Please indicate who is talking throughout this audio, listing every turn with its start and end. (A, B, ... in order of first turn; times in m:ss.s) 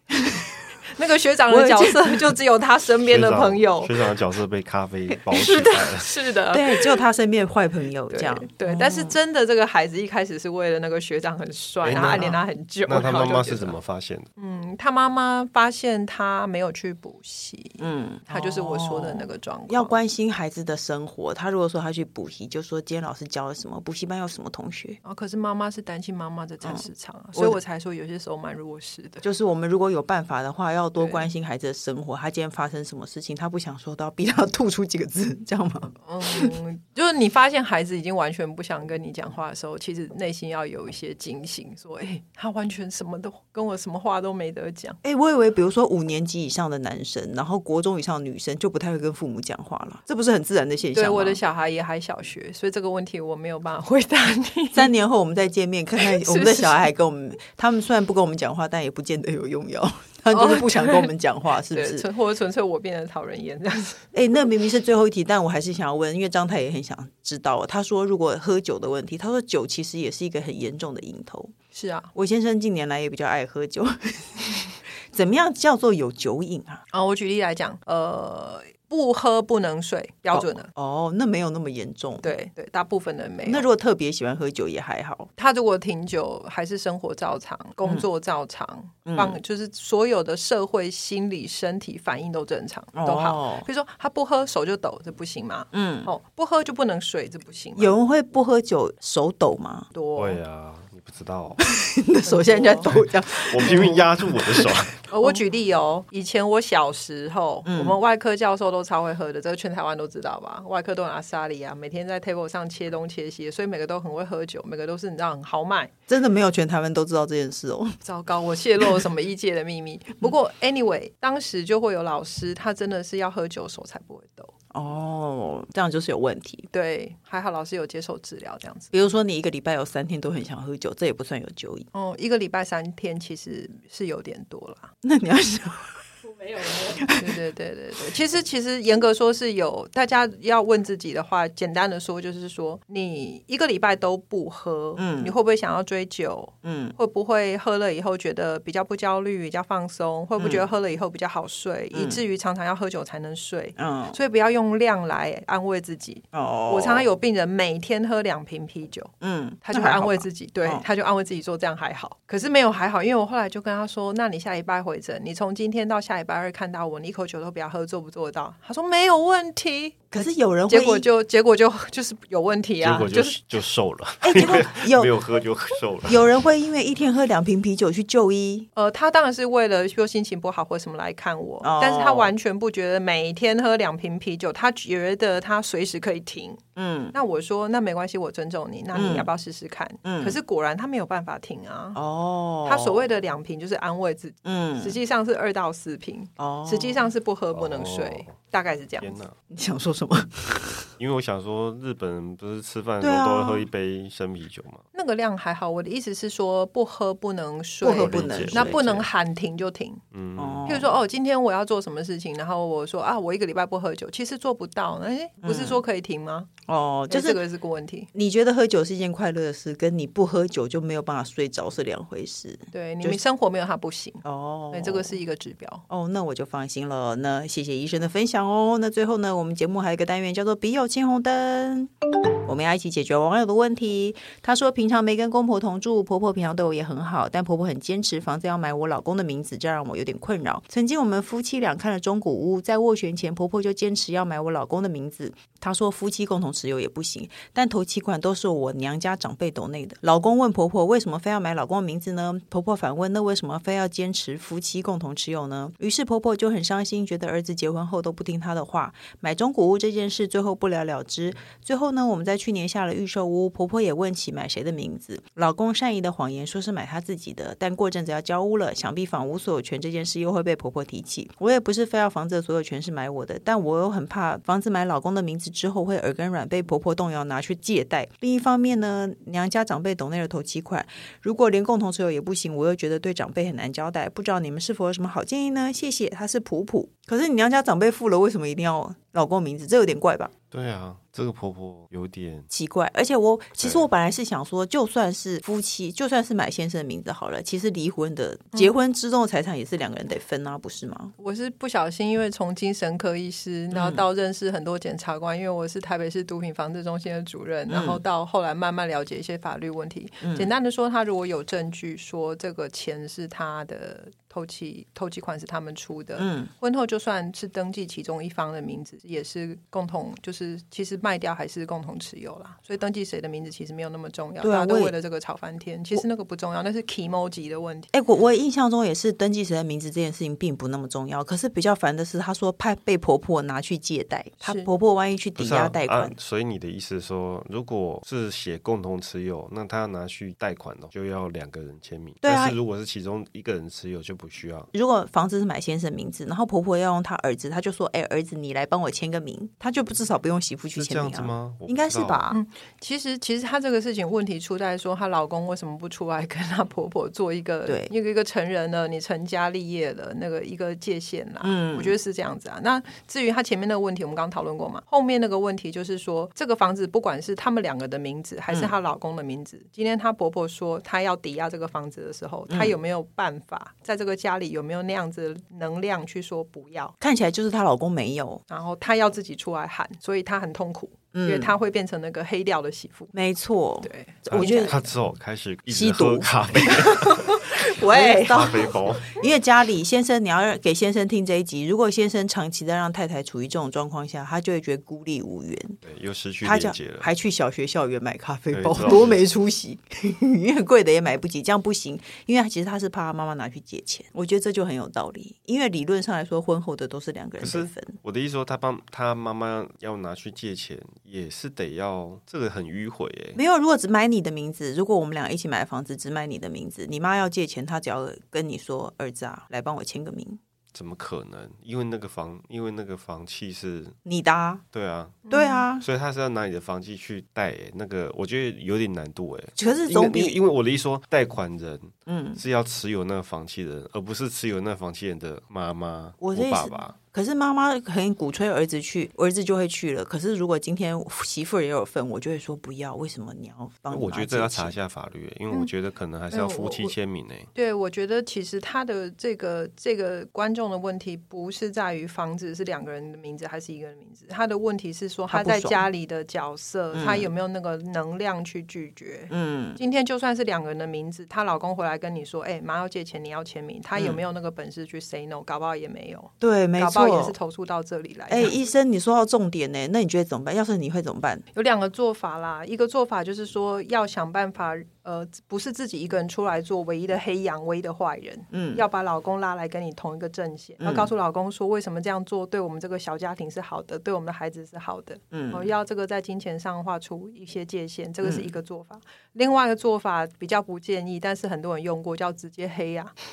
0:00.1-0:00.7 A
0:00.9-0:04.1 B
0:01.5-0:02.2 A
0:03.1-0:06.2 C
0:05.3-0:05.9 A
0:05.4-0:07.0 B
0:06.5-0:09.2 A
0:08.1-0:13.8 B
0:11.8-0:12.4 C
0:11.9-0:12.4 A
0:12.9-0:14.3 C
0:14.4-0:20.0 B
0:17.8-0:25.0 A
0:25.0-0:29.2 B
0:26.6-0:27.6 A
0:29.2-0:36.5 A
0:31.0-0:31.3 B
0:36.0-0:45.0 B
0:45.0-0:51.4 A
0:51.0-0:54.9 B
0:54.7-1:02.0 A
0:56.0-0:56.9 B
1:00.3-1:01.1 B
1:01.7-1:04.1 B
1:04.1-1:11.5 A
1:11.7-1:12.1 B
1:12.1-1:16.8 A
1:16.9-1:20.7 B
1:20.3-1:22.3 A
1:22.2-1:23.6 B
1:23.5-1:25.3 A
1:25.4-1:37.9 B
1:29.1-1:29.4 A
1:33.0-1:33.7 A
1:35.7-1:36.1 A
1:37.8-1:39.9 A
1:39.9-1:40.4 B
1:40.2-1:41.6 C
1:41.6-1:44.7 A
1:42.2-1:42.9 B
1:42.9-1:45.0 C
1:43.6-1:44.0 B
1:45.1-1:55.9 B
1:47.7-1:48.0 A
1:56.1-1:58.0 A
1:58.0-2:04.5 B
2:04.7-2:06.7 A
2:06.7-2:08.9 B
2:08.9-2:11.9 A
2:11.9-2:14.9 B
2:15.0-2:17.4 A
2:17.2-2:39.1 B
2:25.0-2:25.4 A
2:26.6-2:27.0 A
2:30.4-2:30.6 A
2:31.9-2:32.2 A
2:33.8-2:34.2 A
2:36.3-2:37.1 A
2:39.2-2:40.8 A
2:39.6-2:53.4 B
2:50.1-2:51.0 A
2:52.8-2:56.2 C
2:54.2-2:55.2 A
2:56.1-2:58.7 A
2:58.8-3:06.6 B
3:01.6-3:02.3 A
3:06.8-3:07.2 A
3:07.1-3:12.0 B
3:08.9-3:09.3 A
3:10.0-3:10.4 A
3:12.0-3:13.0 A
3:12.6-3:19.1 B
3:14.4-3:15.0 A
3:16.4-3:17.1 A
3:17.5-3:18.4 C
3:19.0-3:19.4 C
3:19.5-3:20.9 A
3:21.0-3:24.8 C
3:23.0-3:23.7 A
3:24.9-3:30.0 B
3:27.8-3:28.8 A
3:27.9-3:29.1 C
3:30.1-3:30.9 C
3:30.4-3:30.9 A
3:30.7-3:36.5 B
3:35.4-3:35.8 A
3:36.7-3:37.4 A
3:37.1-3:38.1 B
3:38.1-3:43.2 A
3:42.7-3:45.9 B
3:44.2-3:45.2 A
3:45.9-3:51.9 A
3:52.4-4:50.3 A
4:50.5-4:52.5 C
4:52.5-5:01.1 A
4:53.6-4:53.9 C
5:01.2-5:27.9 B
5:03.7-5:04.0 A
5:07.7-5:08.0 A
5:10.2-5:10.5 A
5:16.2-5:16.5 A
5:24.4-5:24.9 A
5:27.9-5:36.2 A
5:34.4-5:34.7 B
5:35.4-5:44.7 C
5:42.2-5:42.6 A
5:44.7-5:52.4 A
5:50.8-5:52.3 C
5:52.3-6:17.0 B
6:01.4-6:01.9 A
6:12.5-6:12.8 A
6:17.0-6:18.4 A
6:18.5-6:23.1 B
6:21.1-6:21.5 A
6:23.1-6:24.8 A
6:23.8-6:24.9 B
6:24.3-6:29.2 C
6:25.7-6:35.8 A
6:27.0-6:28.7 B
6:35.8-6:37.1 C
6:36.4-6:48.0 A
6:38.5-6:39.3 C
6:47.4-6:53.4 C
6:53.4-7:00.4 A
7:00.7-7:04.0 C
7:04.0-7:04.6 A
7:04.7-7:05.3 C
7:05.3-7:05.6 B
7:05.3-7:05.9 A
7:05.8-7:17.0 C
7:09.6-7:10.4 A
7:12.1-7:12.4 A
7:16.2-7:24.8 A
7:23.9-7:27.5 C
7:26.3-7:26.9 B
7:27.6-7:48.6 B
7:35.3-7:35.9 A
7:36.9-7:37.3 A
7:39.3-7:39.8 A
7:44.0-7:44.2 A
7:46.4-7:47.4 A
7:48.3-7:51.4 A
7:51.5-8:13.1 B
7:58.5-7:58.8 A
8:00.8-8:01.1 A
8:05.3-8:05.7 A